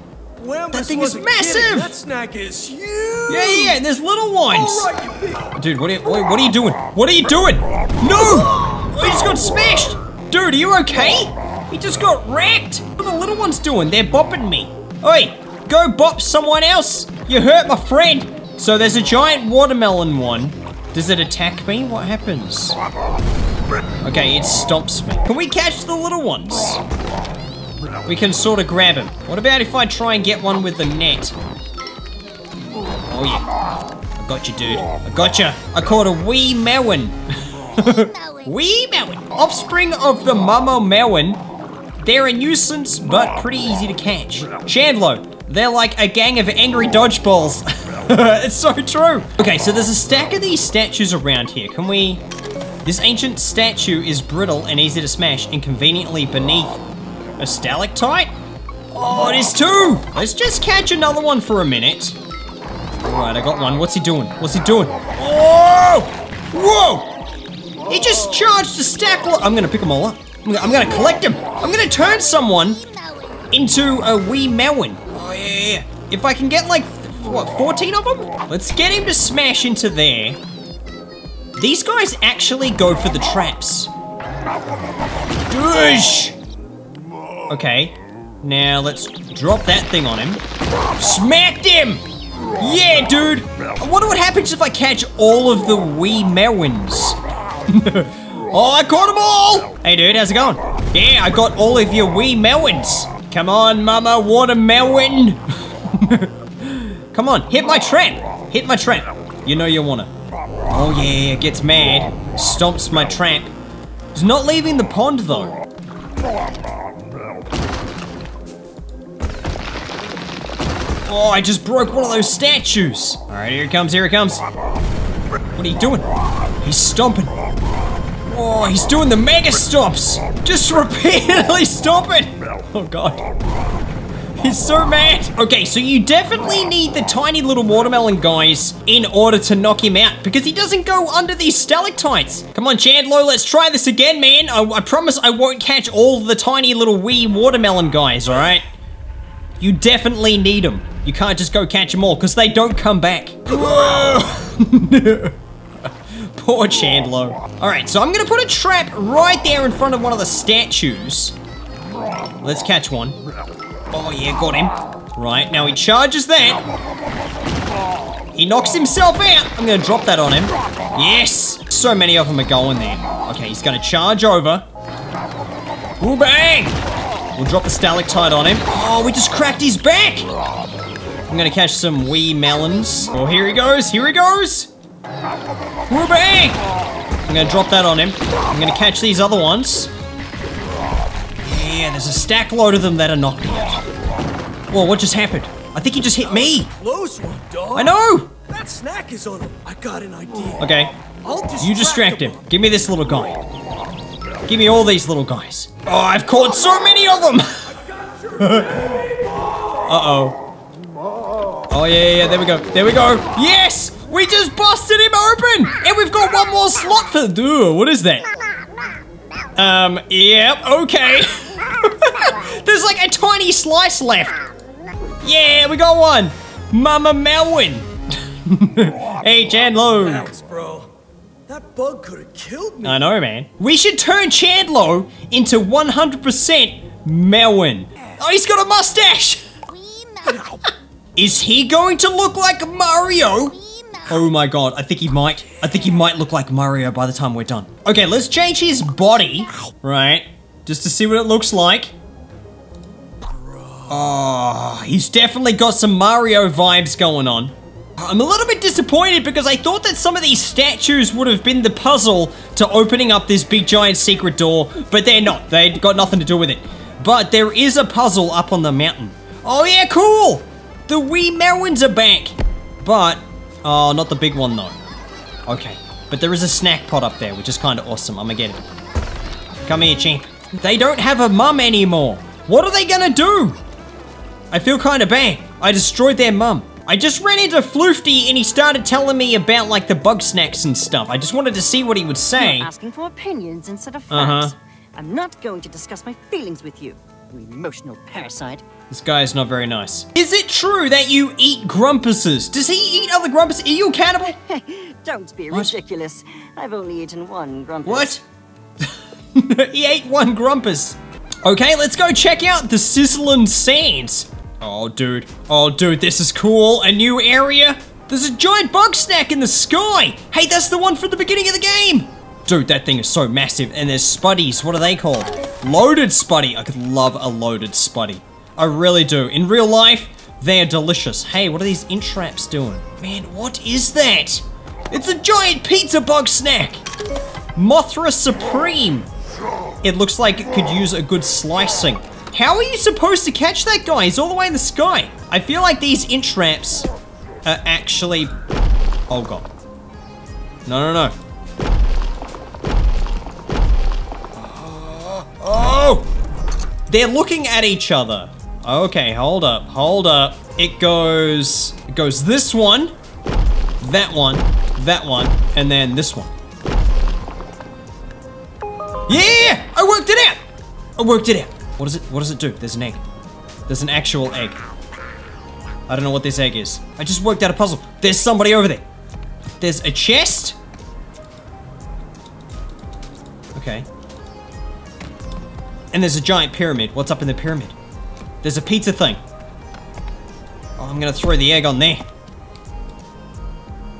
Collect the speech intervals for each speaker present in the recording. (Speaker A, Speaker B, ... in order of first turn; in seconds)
Speaker A: 0.4-3.8, 4.5-5.5, 8.3-8.7, 196.2-200.7, 201.2-202.5, 207.9-208.9, 230.0-230.9, 231.5-233.0, 240.2-240.6, 253.3-253.9
Speaker B: 0.7-2.0, 3.3-4.9, 5.5-22.8, 24.0-26.8, 28.1-31.4, 33.1-33.5, 34.2-41.4, 42.0-52.2, 52.9-56.8, 57.4-58.3, 59.0-62.2, 63.0-67.1, 67.9-72.9, 73.5-80.4, 81.6-83.9, 85.5-86.3, 87.5-90.4, 91.0-92.0, 92.6-110.1, 110.7-113.5, 114.1-115.6, 121.0-124.4, 125.5-126.1, 126.6-127.3, 128.2-133.2, 134.4-148.7, 149.6-155.4, 156.1-161.4, 162.4-163.2, 163.9-166.7, 168.3-174.7, 176.0-176.8, 177.3-180.3, 181.3-184.7, 185.9-186.6, 187.3-189.9, 191.4-193.8, 194.7-196.7, 197.8-198.3, 200.6-201.0, 201.6-203.4, 204.4-207.8, 208.4-209.1, 209.8-210.4, 211.7-218.3, 219.6-224.4, 225.2-230.3, 232.8-239.5, 241.2-251.9, 253.9-274.8, 275.5-278.6, 279.6-283.6, 284.5-292.7, 294.1-294.5, 298.9-304.4, 307.9-308.2, 308.8-336.8, 337.6-339.1, 339.8-346.9, 347.4-348.3, 349.1-349.4, 350.7-351.1, 354.4-356.1, 356.9-362.9, 363.8-366.3, 369.1-370.4, 371.0-373.0, 373.7-374.6, 375.9-378.8, 379.6-380.6, 383.5-383.9, 385.9-387.8, 388.4-389.2, 390.8-392.0
Speaker C: 239.9-240.2, 292.4-298.6, 304.3-308.2